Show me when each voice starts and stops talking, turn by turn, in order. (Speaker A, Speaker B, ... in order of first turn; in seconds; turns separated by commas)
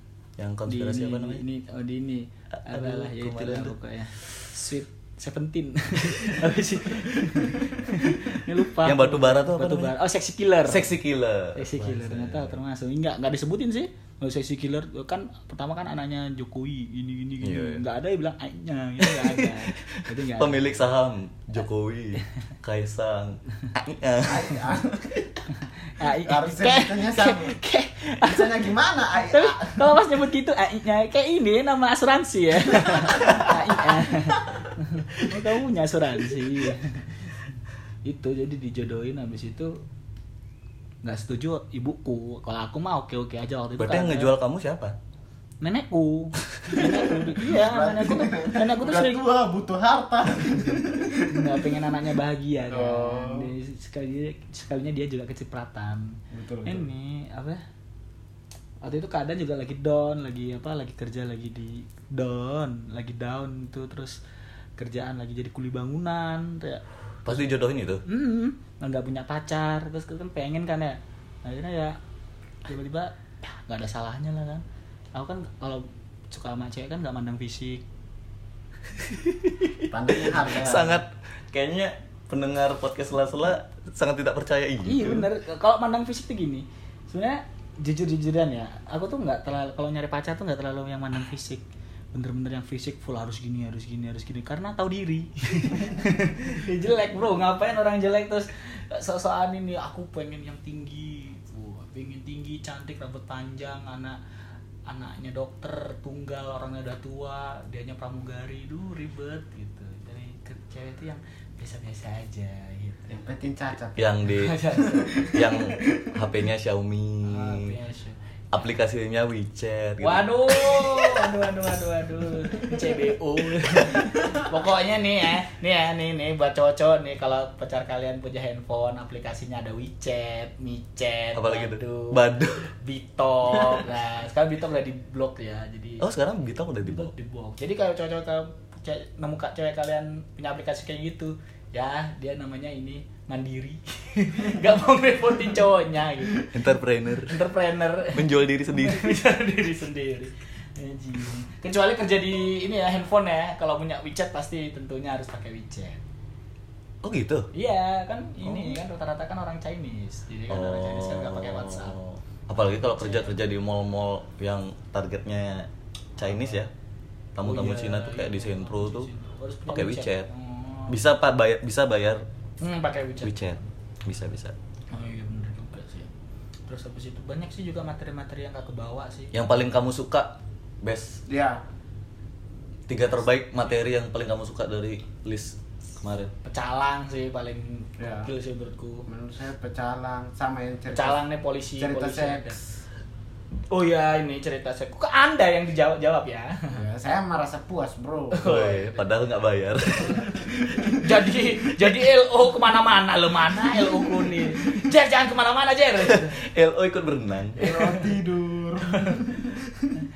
Speaker A: 0.4-1.4, Speaker B: 0.7-10.9, Speaker A: 2.6-3.8, Speaker A: 8.8-9.9, Speaker A: 10.7-12.6, Speaker B: 11.6-20.9, Speaker A: 17.4-17.8, Speaker A: 19.0-24.6, Speaker C: 24.2-25.3, Speaker B: 25.5-28.6, Speaker C: 26.0-27.6, Speaker C: 28.2-29.9, Speaker B: 29.2-37.3, Speaker C: 33.0-33.6, Speaker C: 34.1-34.7, Speaker B: 38.0-39.8, Speaker B: 41.0-44.3, Speaker A: 43.8-45.0, Speaker B: 45.6-49.2, Speaker C: 46.7-51.7, Speaker B: 51.3-57.6, Speaker C: 52.7-53.5, Speaker C: 56.3-56.9, Speaker B: 58.8-64.2, Speaker B: 64.8-67.5, Speaker A: 67.2-68.0, Speaker B: 68.1-72.0, Speaker B: 72.7-74.6, Speaker B: 75.2-77.8, Speaker C: 79.9-81.0, Speaker B: 80.1-81.0, Speaker A: 80.3-85.3, Speaker B: 84.8-104.2, Speaker B: 104.9-113.2, Speaker C: 113.1-114.2, Speaker A: 114.0-114.6, Speaker B: 114.3-115.7, Speaker A: 115.3-117.7, Speaker B: 117.2-118.7, Speaker A: 118.5-121.2, Speaker B: 120.0-136.1, Speaker A: 131.4-132.7, Speaker A: 136.0-137.1, Speaker B: 136.8-146.7, Speaker A: 146.4-147.4, Speaker B: 147.2-156.0, Speaker A: 148.1-149.2, Speaker A: 157.0-157.5, Speaker B: 157.5-162.0, Speaker A: 158.4-158.8, Speaker A: 160.5-166.7, Speaker B: 162.9-163.3, Speaker B: 166.2-166.6, Speaker A: 167.4-169.1, Speaker B: 167.4-171.0, Speaker A: 169.7-170.3, Speaker A: 170.9-172.2, Speaker B: 172.6-173.7, Speaker A: 173.2-174.5, Speaker B: 174.9-176.1, Speaker B: 176.7-179.4, Speaker A: 179.3-181.2, Speaker C: 181.3-181.6, Speaker A: 182.9-186.3, Speaker B: 186.4-189.1, Speaker C: 188.0-188.3, Speaker C: 189.1-191.2, Speaker B: 190.9-192.6, Speaker C: 191.8-192.6, Speaker B: 193.7-196.8, Speaker C: 196.7-198.4, Speaker B: 198.3-199.1, Speaker A: 198.4-200.9, Speaker B: 200.2-206.4, Speaker A: 206.0-207.7, Speaker C: 207.6-209.9, Speaker B: 207.6-208.1, Speaker B: 208.8-209.6